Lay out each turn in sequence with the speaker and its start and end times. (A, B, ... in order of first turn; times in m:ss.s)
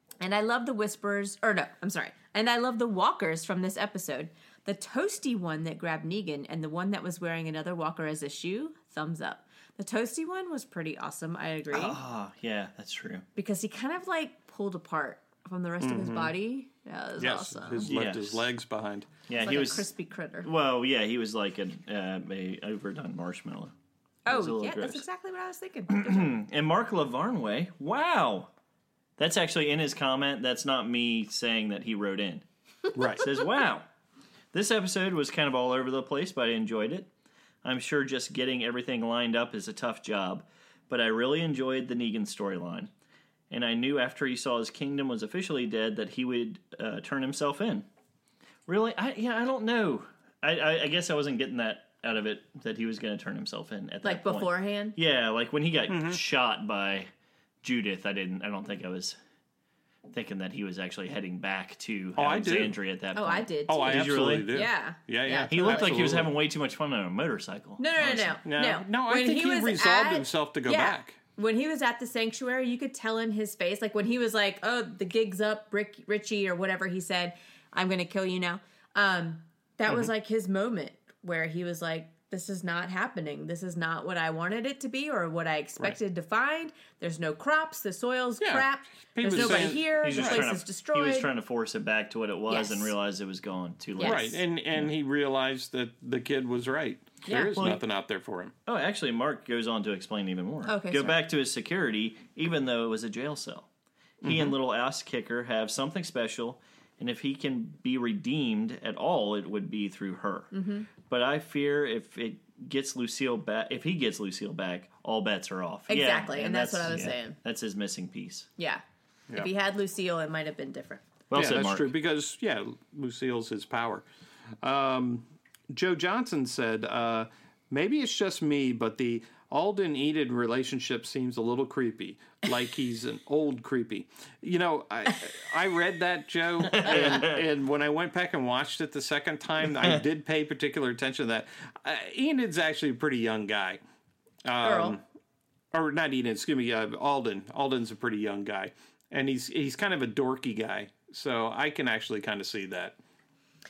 0:00.2-0:12.0 A
0:11.7-0:13.3 B
0:13.4-0:17.9 A
0:15.8-0:16.3 C
0:17.2-0:19.1 C
0:17.8-0:18.4 B
0:19.3-0:19.9 B
0:19.4-0:20.5 A
0:20.4-0:23.7 B
0:24.3-0:26.3 A
0:24.3-0:25.0 B
0:25.9-0:28.5 B
0:29.2-0:32.4 B
0:33.0-0:33.2 C
0:33.2-0:33.9 B
0:34.5-0:37.1 B
0:37.6-0:42.9 B
0:43.5-0:47.9 B
0:48.7-0:57.1 B
0:54.0-0:55.0 A
0:55.9-0:56.2 C
0:57.6-0:59.2 B
1:00.1-1:04.5 B
1:02.2-1:02.8 C
1:03.2-1:06.1 A
1:03.7-1:06.3 C
1:05.5-1:08.4 B
1:07.8-1:31.3 A
1:08.4-1:11.2 C
1:28.4-1:30.5 C
1:29.3-1:34.9 B
1:32.5-1:32.9 A
1:34.0-1:34.3 A
1:34.0-1:38.5 C
1:37.3-1:37.5 A
1:37.6-1:37.8 B
1:38.7-1:43.7 B
1:40.7-1:41.2 A
1:44.2-1:44.6 C
1:44.2-1:58.5 B
1:50.5-1:50.9 A
1:55.9-1:57.4 A
1:58.6-1:58.8 A
1:59.3-2:01.0 A
2:01.3-2:01.9 B
2:01.4-2:04.1 C
2:04.6-2:23.8 C
2:16.7-2:17.4 B
2:24.4-2:25.0 C
2:24.6-2:25.0 A
2:25.7-2:33.0 C